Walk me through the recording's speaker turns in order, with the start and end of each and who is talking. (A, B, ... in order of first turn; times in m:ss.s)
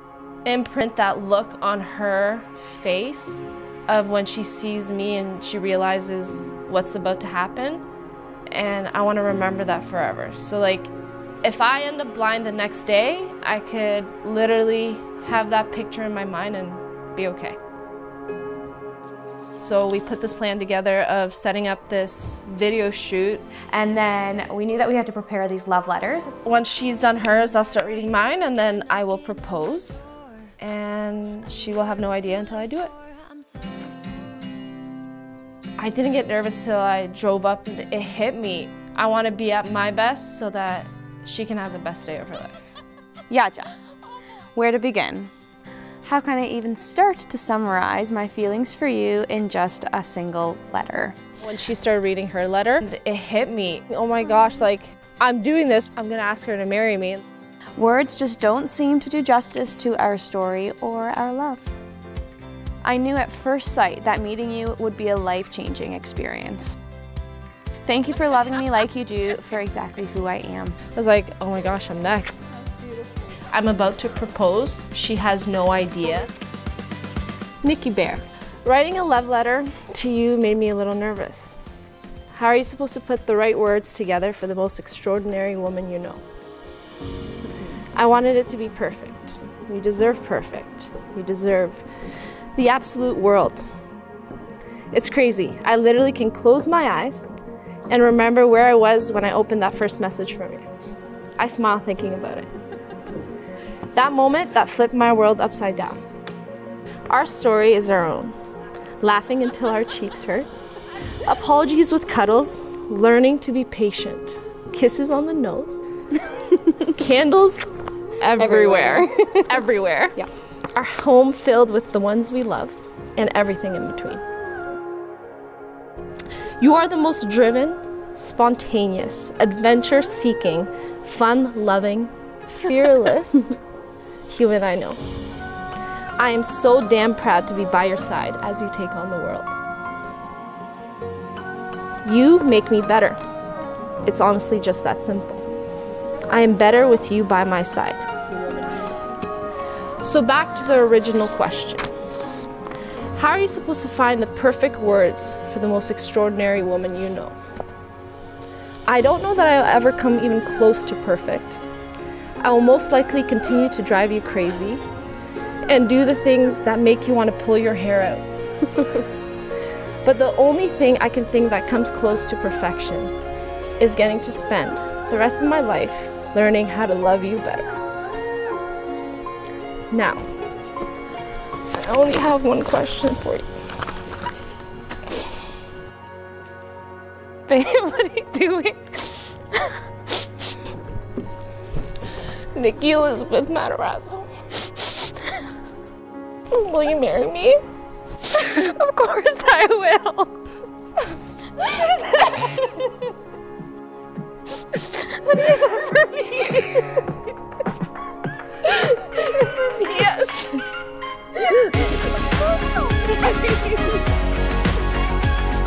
0:00.4-0:07.8 A
0:08.5-0:17.6 A
0:19.6-0:23.5 A
0:23.7-0:26.4 B
0:26.4-0:30.1 A
0:30.6-0:33.0 A
0:35.8-0:42.6 A
0:43.3-0:43.7 B
0:44.6-0:45.3 B
0:46.0-0:51.2 B
0:51.4-0:57.2 A
0:57.8-1:01.7 B
1:02.8-1:06.8 B
1:07.8-1:10.8 B
1:10.9-1:12.5 A
1:13.3-1:16.3 A
1:17.6-1:21.6 A
1:22.3-1:26.2 A
1:27.9-1:31.9 A
1:32.6-1:33.6 A
1:34.9-1:37.3 A
1:37.9-1:40.7 A
1:41.4-1:42.5 A
1:43.9-1:46.0 A
1:47.1-1:48.4 A
1:49.0-1:50.5 A
1:51.2-1:55.9 A
1:56.8-2:04.2 A
1:58.4-1:59.5 B
2:06.6-2:13.6 A
2:14.3-2:15.0 A
2:16.2-2:19.6 A
2:22.0-2:23.2 A
2:24.0-2:25.5 A
2:26.3-2:28.8 A
2:30.0-2:31.9 A
2:33.1-2:37.4 A
2:38.9-2:41.6 A
2:42.4-2:44.8 A
2:45.7-2:49.1 A
2:50.0-2:53.1 A
2:53.8-2:57.7 A
2:59.9-3:00.3 A
3:01.7-3:03.5 A
3:07.5-3:09.8 B
3:12.6-3:14.3 A
3:16.5-3:17.6 A
3:18.3-3:20.4 B
3:21.7-3:22.1 A
3:25.2-3:26.8 B
3:25.6-3:26.7 A
3:28.6-3:30.6 A
3:33.1-3:33.6 B